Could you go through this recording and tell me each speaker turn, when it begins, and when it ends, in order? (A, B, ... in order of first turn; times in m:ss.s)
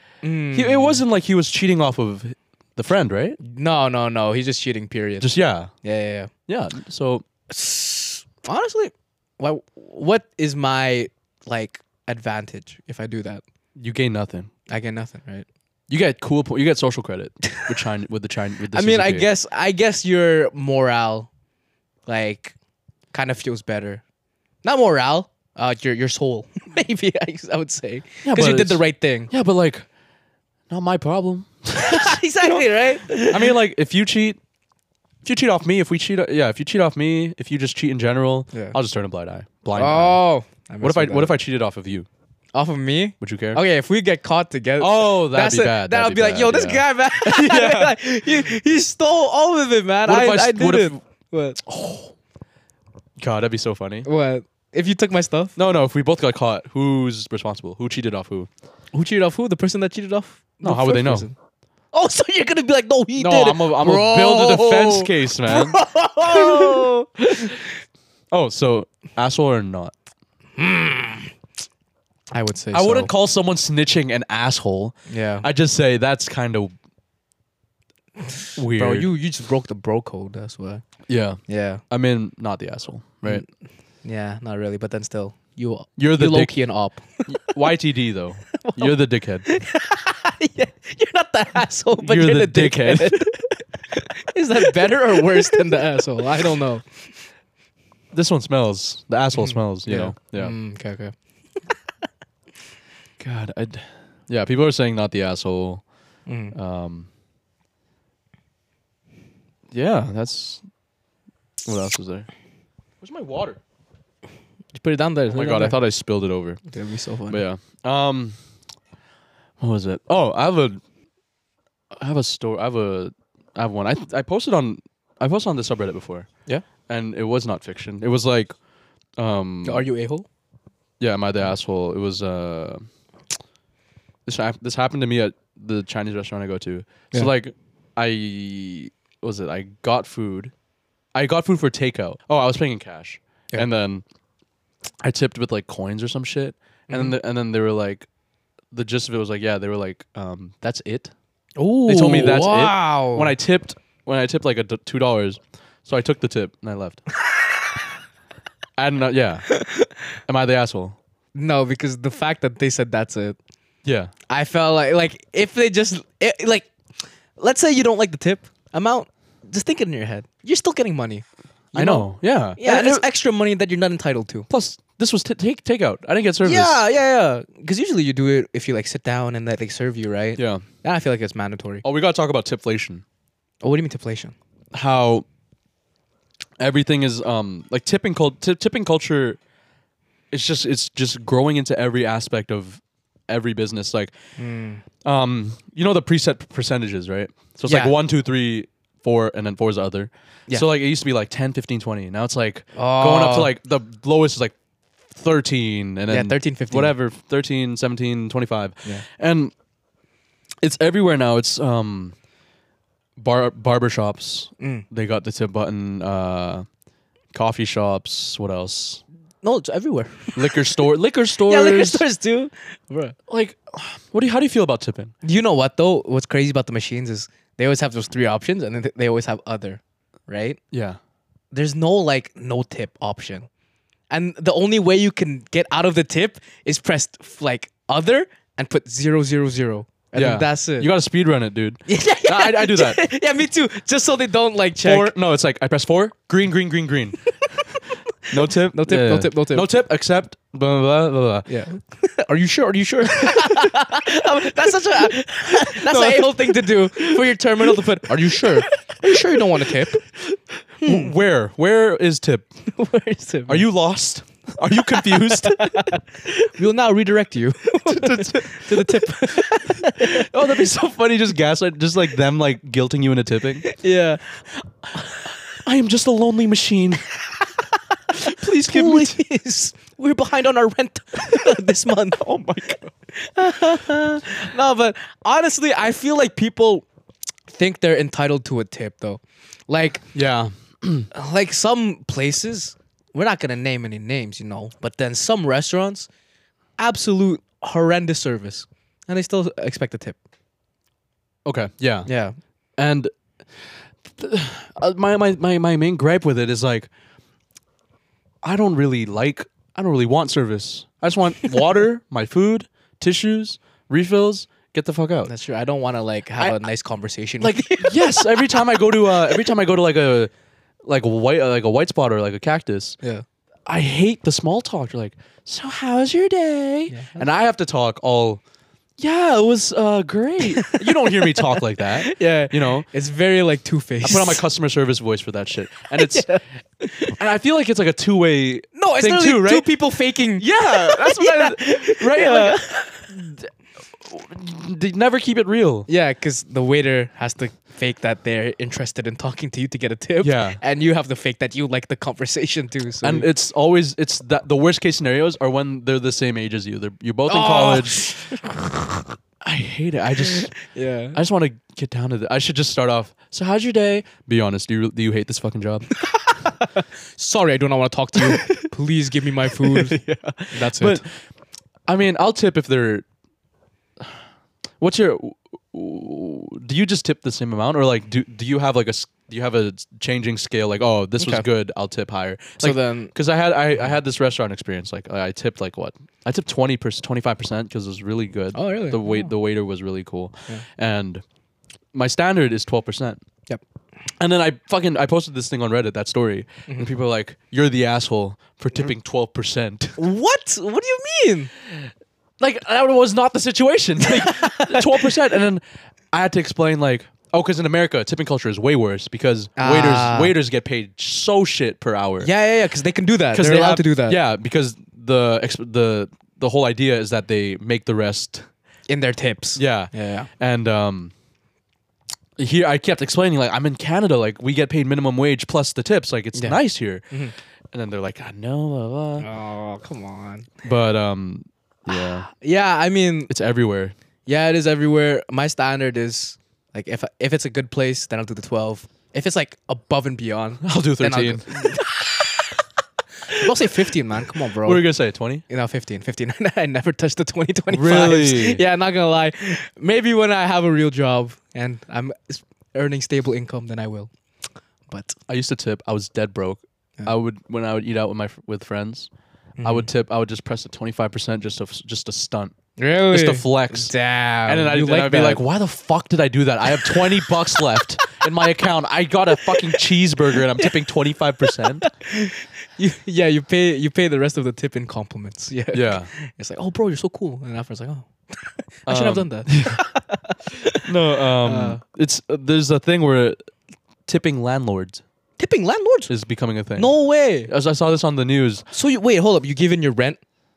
0:00.2-0:01.0 A
0:00.5-0:03.4 B
0:03.4-0:06.3 A
0:05.2-0:05.7 B
0:06.5-0:07.2 B
0:07.5-0:13.4 A
0:13.8-0:14.5 B
0:14.7-0:15.4 A
0:15.9-0:19.3 B
0:18.7-0:21.3 A
0:22.0-0:22.5 A
0:23.1-0:24.0 A
0:24.6-0:29.3 A
0:28.2-0:29.9 B
0:30.7-0:32.2 B
0:31.7-0:33.6 A
0:33.2-0:34.4 B
0:35.2-0:40.2 B
0:38.5-0:38.8 A
0:39.7-0:41.3 A
0:40.8-0:42.1 B
0:42.5-0:51.6 A
0:43.2-0:43.6 B
0:44.8-0:48.0 B
0:50.0-0:51.0 B
0:51.6-0:52.1 B
0:53.2-0:54.1 B
0:54.0-0:55.5 A
0:55.6-0:58.5 B
0:58.9-1:01.3 A
1:00.6-1:01.3 B
1:01.9-1:07.6 A
1:03.2-1:07.5 B
1:08.3-1:09.9 B
1:10.6-1:11.3 A
1:12.3-1:13.1 A
1:12.7-1:16.7 B
1:15.1-1:15.5 A
1:18.3-1:20.8 A
1:18.5-1:19.1 B
1:21.1-1:23.4 B
1:21.4-1:21.8 A
1:24.0-1:27.5 A
1:26.0-1:26.6 B
1:27.3-1:29.5 B
1:28.6-1:36.8 A
1:32.0-1:33.3 B
1:38.1-1:40.6 B
1:39.3-1:41.1 A
1:43.2-1:45.8 B
1:46.2-1:46.5 A
1:46.5-1:47.1 B
1:49.7-1:50.6 B
1:51.6-1:52.3 B
1:53.0-1:53.6 B
1:54.7-1:55.8 A
1:55.3-1:56.6 B
1:56.7-1:57.4 A
1:57.3-1:58.4 B
1:59.6-2:00.8 B
2:01.9-2:08.6 B
2:09.2-2:09.8 B
2:09.6-2:10.3 A
2:11.0-2:12.8 B
2:14.2-2:20.5 B
2:21.1-2:24.0 B
2:25.0-2:28.1 B
2:26.9-2:27.2 A
2:28.7-2:31.1 B
2:31.6-2:33.3 A
2:31.8-2:37.0 B
2:38.8-2:39.5 B
2:39.6-2:39.9 A
2:40.3-2:41.0 B
2:41.3-2:43.4 A
2:43.8-2:44.1 B
2:44.3-2:46.7 A
2:47.4-2:54.5 A
2:51.7-2:53.0 B
2:54.5-2:56.8 B
2:56.4-3:01.8 A
3:00.4-3:00.6 B
3:01.8-3:03.0 B
3:03.6-3:04.3 A
3:04.7-3:05.2 B
3:06.6-3:09.4 B
3:10.3-3:14.1 B
3:14.4-3:14.8 A
3:15.0-3:24.5 B
3:17.6-3:17.9 A
3:22.7-3:23.5 A
3:25.1-3:29.5 B
3:26.1-3:26.9 A
3:30.6-3:32.1 B
3:33.2-3:36.6 B
3:34.6-3:34.8 A
3:37.3-3:39.0 B
3:39.4-3:40.8 A
3:40.4-3:42.0 B
3:41.4-3:43.2 A
3:43.3-3:45.1 B
3:45.2-3:50.6 A
3:50.7-3:51.0 B
3:51.5-3:53.5 A
3:54.1-4:00.9 A
4:00.1-4:03.0 B
4:01.9-4:05.1 A
4:04.8-4:11.5 B
4:08.3-4:09.7 A
4:11.5-4:20.0 A
4:15.7-4:16.8 B
4:20.8-4:21.1 A
4:20.8-4:22.5 B
4:22.7-4:23.7 A
4:23.5-4:25.8 B
4:24.7-4:30.6 A
4:27.9-4:33.7 B
4:33.6-4:35.3 A
4:35.6-4:37.1 B
4:38.1-4:42.4 A
4:38.1-4:39.2 B
4:42.2-4:42.9 B
4:43.1-4:46.8 A
4:47.5-4:50.1 A
4:50.1-4:51.1 B
4:51.1-4:56.1 A
4:56.8-5:00.2 A
5:01.4-5:02.1 B
5:02.0-5:02.4 A
5:02.8-5:06.9 B
5:08.4-5:15.3 B
5:15.2-5:19.5 A
5:16.4-5:16.6 B
5:17.4-5:20.3 B
5:20.8-5:23.0 B
5:23.6-5:28.4 B
5:26.9-5:27.2 A
5:29.0-5:32.9 B
5:30.5-5:34.4 A
5:34.0-5:36.4 B
5:35.9-5:37.1 A
5:37.1-5:39.7 B
5:38.7-5:43.1 A
5:40.4-5:45.9 B
5:45.9-5:53.3 A
5:50.2-5:50.6 B
5:53.0-5:58.2 B
5:57.3-5:59.0 A
5:59.4-6:00.5 B
6:00.3-6:01.2 A
6:01.1-6:05.9 B
6:06.0-6:11.0 A
6:08.2-6:08.7 B
6:09.6-6:11.1 B
6:11.9-6:13.0 B
6:14.8-6:31.2 B
6:21.2-6:21.5 A
6:22.6-6:23.1 A
6:28.5-6:29.3 A
6:31.9-6:33.2 B
6:34.2-6:40.0 B
6:36.7-6:36.9 A
6:40.0-6:41.5 A
6:41.7-6:52.3 B
6:44.0-6:45.1 A
6:49.6-6:50.3 A
6:52.2-6:54.2 A
6:53.3-6:58.5 B
6:58.9-7:00.3 A
6:59.6-7:01.1 B
7:02.4-7:07.0 B
7:06.3-7:06.6 A
7:07.7-7:09.3 B
7:09.2-7:10.5 A
7:10.6-7:12.3 B
7:11.9-7:13.3 A
7:13.3-7:13.9 B
7:14.2-7:22.6 A
7:20.6-7:21.8 B
7:23.3-7:24.8 A
7:24.6-7:25.4 B
7:25.5-7:34.1 A
7:27.7-7:28.6 B
7:34.9-7:35.2 A
7:35.3-7:39.1 B
7:39.6-7:39.9 A
7:39.6-7:42.5 B
7:42.8-7:45.4 A
7:43.1-7:43.9 B
7:44.4-7:51.8 B
7:46.7-7:47.6 A
7:49.5-7:49.8 A
7:50.3-7:50.8 A
7:51.4-8:01.8 A
7:55.7-7:56.1 B
7:58.9-7:59.8 B
8:00.8-8:03.5 B
8:04.0-8:05.0 B
8:05.4-8:06.1 A
8:06.1-8:06.9 B
8:06.8-8:07.5 A
8:07.4-8:08.7 B
8:08.7-8:10.2 A